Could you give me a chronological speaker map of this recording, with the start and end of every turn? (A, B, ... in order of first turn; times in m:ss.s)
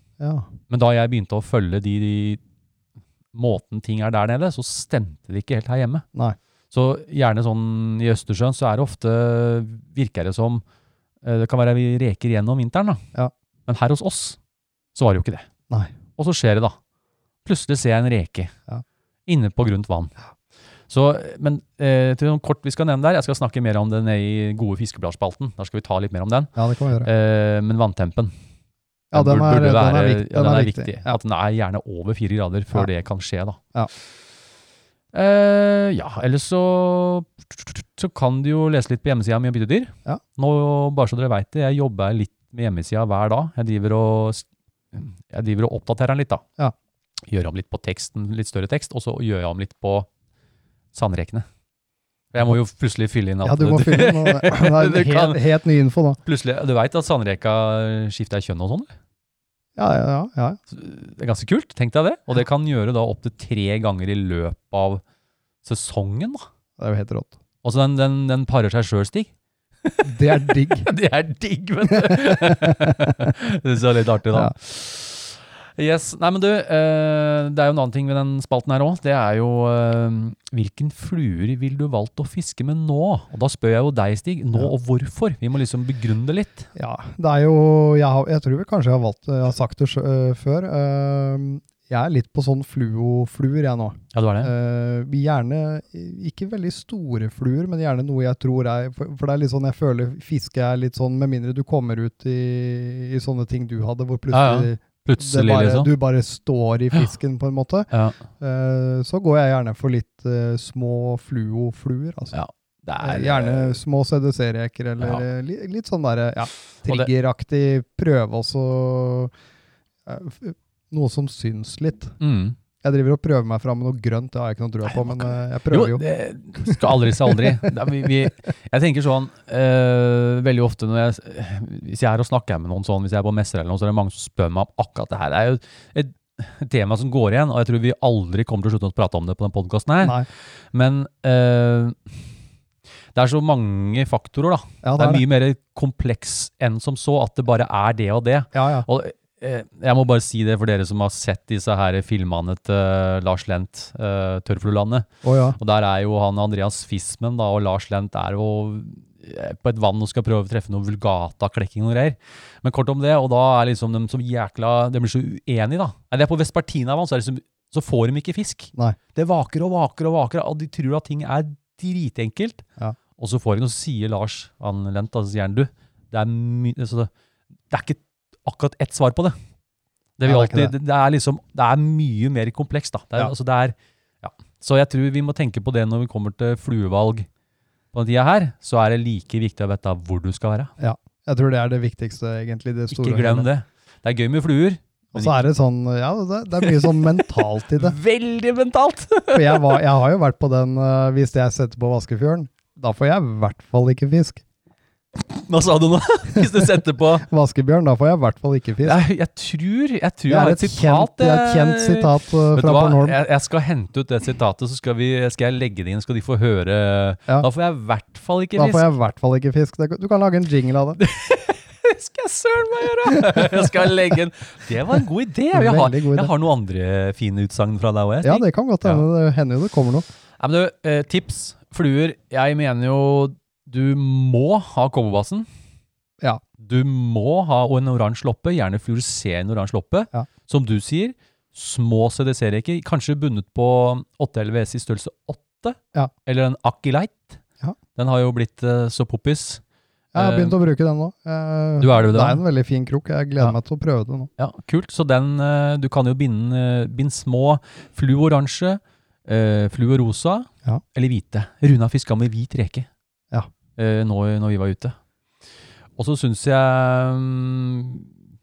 0:00.2-0:00.5 A
0:00.7-0:02.4 B
0:03.3-0:06.0 B
0:06.7-0:10.6 B
0:11.2-0:13.0 B
0:13.7-0:14.4 B
0:14.9-0:15.5 B
0:16.2-0:16.8 B
0:17.4-0:18.5 B
0:19.3-0:20.1 B
0:20.9-0:28.3 B
0:26.6-0:27.1 A
0:29.1-0:31.2 A
0:29.1-0:33.6 B
0:35.1-0:46.4 B
0:47.3-0:50.1 B
0:50.9-0:51.4 B
0:52.3-0:55.4 B
0:53.4-0:56.2 A
0:56.2-0:58.9 B
0:59.8-1:00.6 A
1:00.7-1:05.0 B
1:05.6-1:06.4 B
1:06.8-1:07.3 A
1:07.6-1:09.3 B
1:09.8-1:26.7 B
1:10.0-1:10.9 A
1:11.9-1:13.3 A
1:26.8-1:47.9 A
1:34.1-1:34.5 B
1:44.3-1:45.9 B
1:47.9-1:48.2 B
1:48.4-1:52.4 A
1:52.3-1:53.8 B
1:53.0-1:59.3 A
2:00.0-2:02.1 A
2:02.2-2:02.6 B
2:02.8-2:06.0 A
2:04.8-2:22.2 B
2:06.6-2:07.7 A
2:20.0-2:20.3 A
2:23.1-2:52.6 B
2:24.8-2:25.2 A
2:28.5-2:28.9 A
2:35.2-2:35.6 A
2:53.2-2:57.1 B
2:57.7-2:59.4 B
3:00.2-3:07.3 B
3:00.2-3:00.7 A
3:07.9-3:10.7 B
3:10.8-3:13.5 A
3:12.9-3:15.4 B
3:15.1-3:18.0 A
3:16.6-3:19.8 B
3:19.3-3:24.4 A
3:25.3-3:27.2 B
3:27.2-3:29.0 A
3:28.8-3:38.8 B
3:30.3-3:33.2 A
3:38.6-3:41.0 A
3:41.0-3:49.0 B
3:43.1-3:43.7 A
3:45.5-3:46.3 A
3:48.2-3:50.0 A
3:50.4-3:55.5 B
3:56.6-4:07.4 B
4:08.0-4:09.6 B
4:10.1-4:14.3 A
4:10.1-4:10.6 B
4:11.8-4:12.4 B
4:14.4-4:22.9 B
4:23.8-4:25.0 B
4:26.0-4:28.1 B